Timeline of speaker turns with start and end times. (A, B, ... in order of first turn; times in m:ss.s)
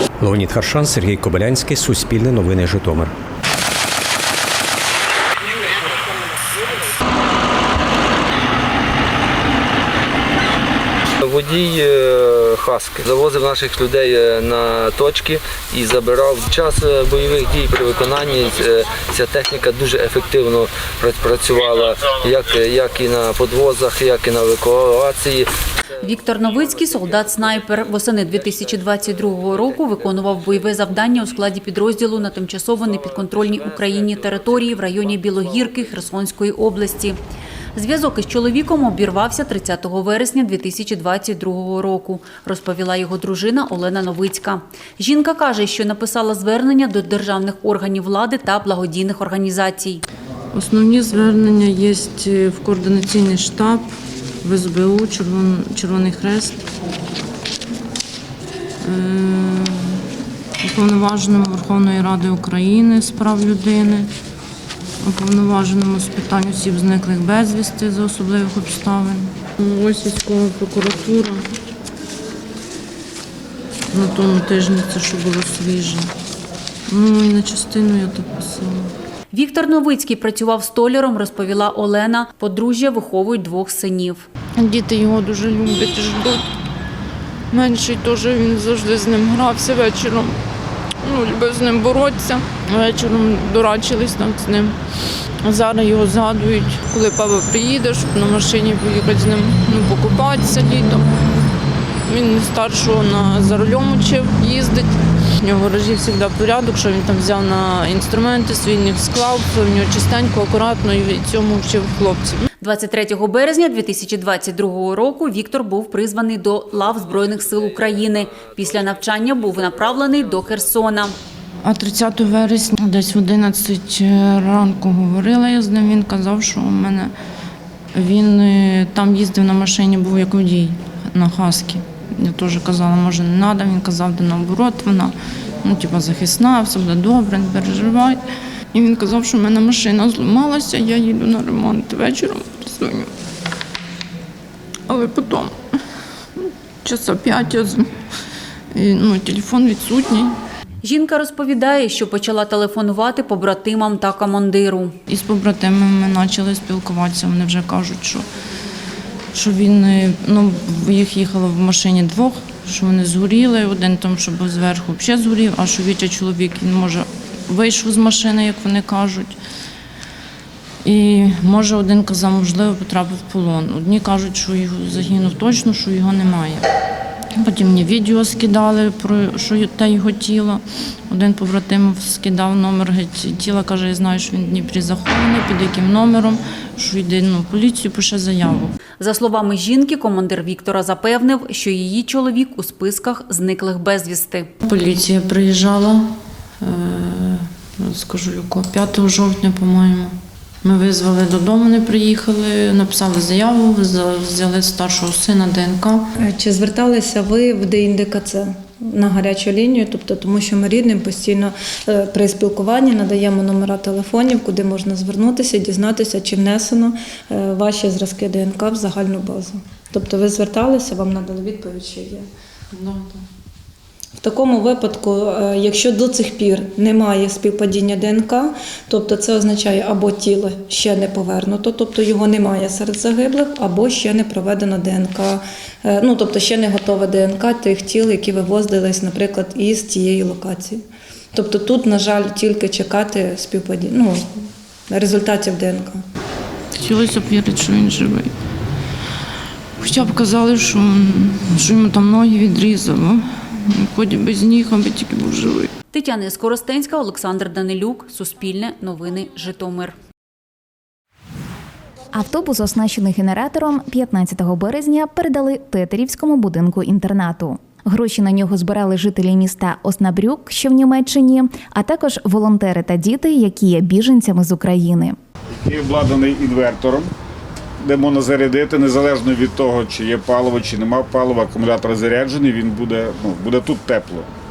0:00.2-0:03.1 A
0:11.2-0:25.4 B
0:26.0-0:37.2 C
0:26.4-0:30.9 B
0:32.9-0:35.9 B
0:37.7-0:50.0 C
0:50.5-0:53.9 D
0:54.4-0:56.6 D
0:58.8-1:00.0 D
1:00.6-1:04.1 D
1:05.0-1:11.4 D
1:13.9-1:16.1 D
1:16.9-1:18.9 D
1:19.3-1:24.2 C
1:24.6-1:26.4 D
1:27.5-1:30.3 D
1:31.1-1:34.7 D
1:35.4-1:41.0 D
1:42.1-1:44.7 D
1:45.4-1:52.4 D
1:52.6-2:01.1 C
1:59.1-1:59.4 B
2:01.6-2:07.1 D
2:08.0-2:18.2 D
2:18.7-2:23.1 D
2:24.9-2:25.5 D
2:26.8-2:27.9 D
2:28.7-2:30.4 D
2:30.8-2:35.0 C
2:35.1-2:38.2 D
2:39.3-2:49.4 D
2:50.8-2:56.6 D
2:57.4-3:08.7 D
3:09.0-3:14.5 C
3:14.6-3:26.1 D
3:26.2-3:42.2 E
3:42.7-3:43.2 D
3:44.2-4:00.8 E
4:01.3-4:04.3 E
4:04.9-4:06.0 E
4:06.8-4:08.3 D
4:09.8-4:15.7 D
4:15.9-4:19.9 C
4:22.1-4:35.2 F
4:35.6-4:37.1 G
4:37.8-4:44.2 G